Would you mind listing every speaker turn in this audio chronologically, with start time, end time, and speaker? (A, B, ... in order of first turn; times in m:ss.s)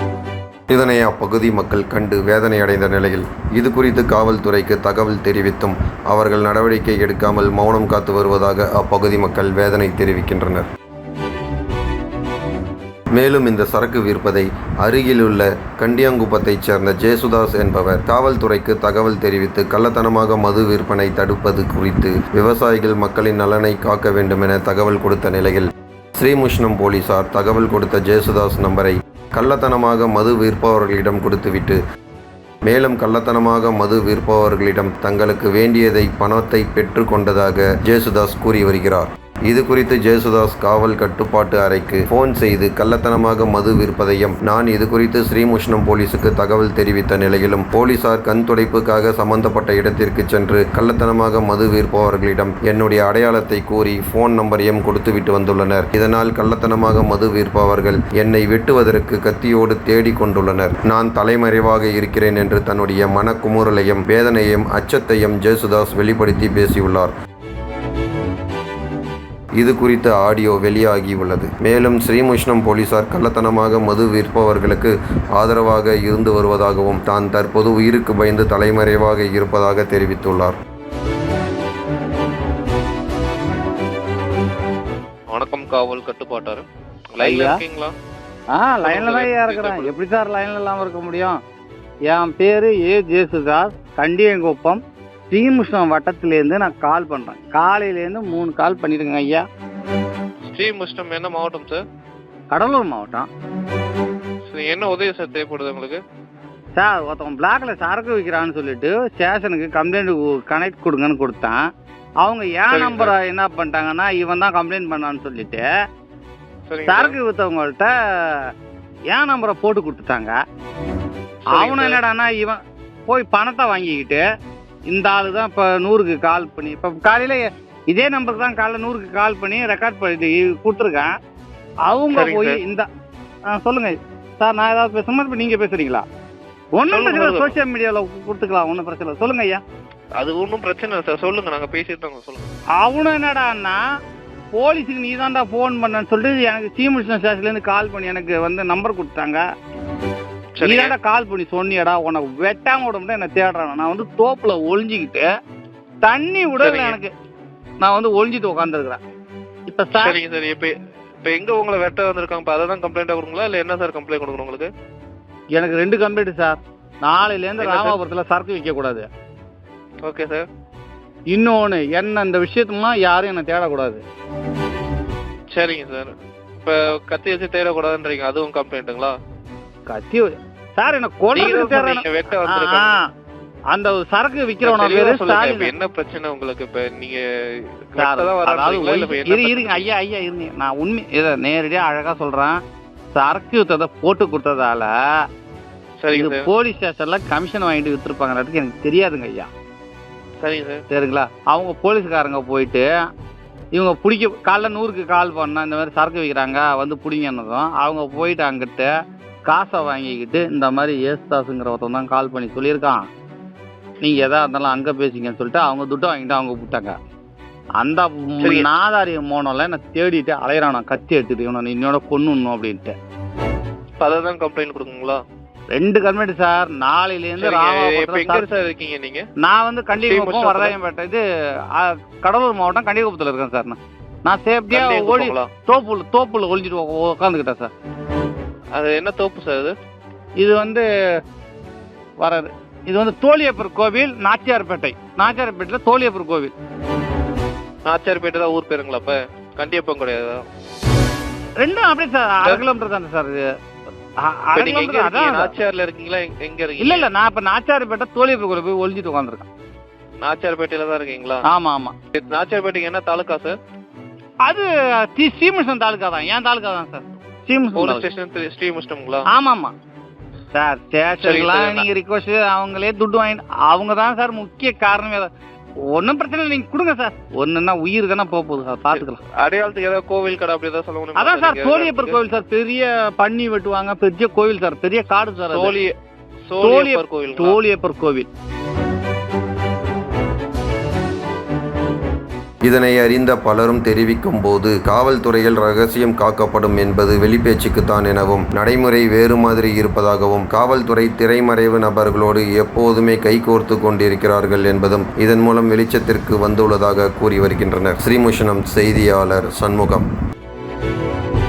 0:00.7-0:10.6 A
0:13.1-0:31.8 A
0:32.6-1:07.1 A
1:09.6-1:20.6 A
1:25.3-1:26.6 B
1:27.2-1:28.0 B
1:27.2-1:27.6 C
1:28.5-1:31.4 C
1:28.8-1:29.9 B
1:32.1-1:39.4 C
1:40.4-1:41.8 B
1:42.5-1:43.3 C
1:44.5-1:46.0 B
1:46.8-1:51.6 C
1:52.2-1:55.7 C
1:52.7-1:53.1 B
1:56.7-1:57.2 B
1:56.9-1:58.5 C
1:59.1-2:00.3 C
2:01.5-2:02.0 B
2:01.5-2:04.2 C
2:04.9-2:11.1 C
2:11.9-2:12.9 C
2:12.1-2:12.6 B
2:13.5-2:16.0 C
2:16.7-2:19.6 C
2:16.9-2:17.6 B
2:20.2-2:22.4 B
2:22.8-2:23.8 C
2:24.5-2:29.4 C
2:30.6-2:30.9 B
2:30.6-2:35.3 C
2:36.0-2:37.1 C
2:36.6-2:37.0 B
2:37.8-2:39.0 C
2:39.7-2:40.2 C
2:39.9-2:44.7 B
2:45.5-2:49.1 C
2:47.6-2:48.0 B
2:50.0-2:50.5 B
2:51.3-2:54.0 C
2:55.5-2:59.1 B
2:59.9-3:03.1 C
3:01.3-3:03.0 B
3:03.7-3:05.7 C
3:04.6-3:07.2 B
3:07.9-3:09.9 B
3:08.0-3:12.6 C
3:13.1-3:14.9 C
3:16.0-3:16.5 B
3:16.1-3:19.5 C
3:20.4-3:20.8 B
3:20.9-3:22.9 C
3:23.7-3:28.9 C
3:29.5-3:33.1 C
3:34.0-3:36.9 C
3:37.8-3:42.9 C
3:38.4-3:38.7 B
3:44.0-3:45.2 B
3:45.7-3:48.4 C
3:47.4-3:49.2 B
3:49.4-3:57.7 C
3:50.0-3:50.8 B
3:54.7-3:55.5 B
3:58.7-3:59.8 B
4:00.4-4:00.9 C
4:02.2-4:06.5 C
4:07.9-4:10.4 B
4:11.6-4:13.5 C
4:14.2-4:15.5 C
4:14.6-4:17.1 B
4:16.8-4:19.5 C
4:20.2-4:21.4 B
4:21.4-4:21.9 C
4:22.1-4:23.6 B
4:24.4-4:28.1 C
4:27.8-4:29.3 B
4:29.3-4:29.7 C
4:30.5-4:35.3 C
4:31.2-4:31.8 B
4:35.9-4:39.2 C
4:38.9-4:42.2 B
4:41.2-4:45.8 C
4:45.4-4:45.9 B
4:46.5-4:47.6 B
4:46.6-4:48.3 C
4:52.6-5:10.1 A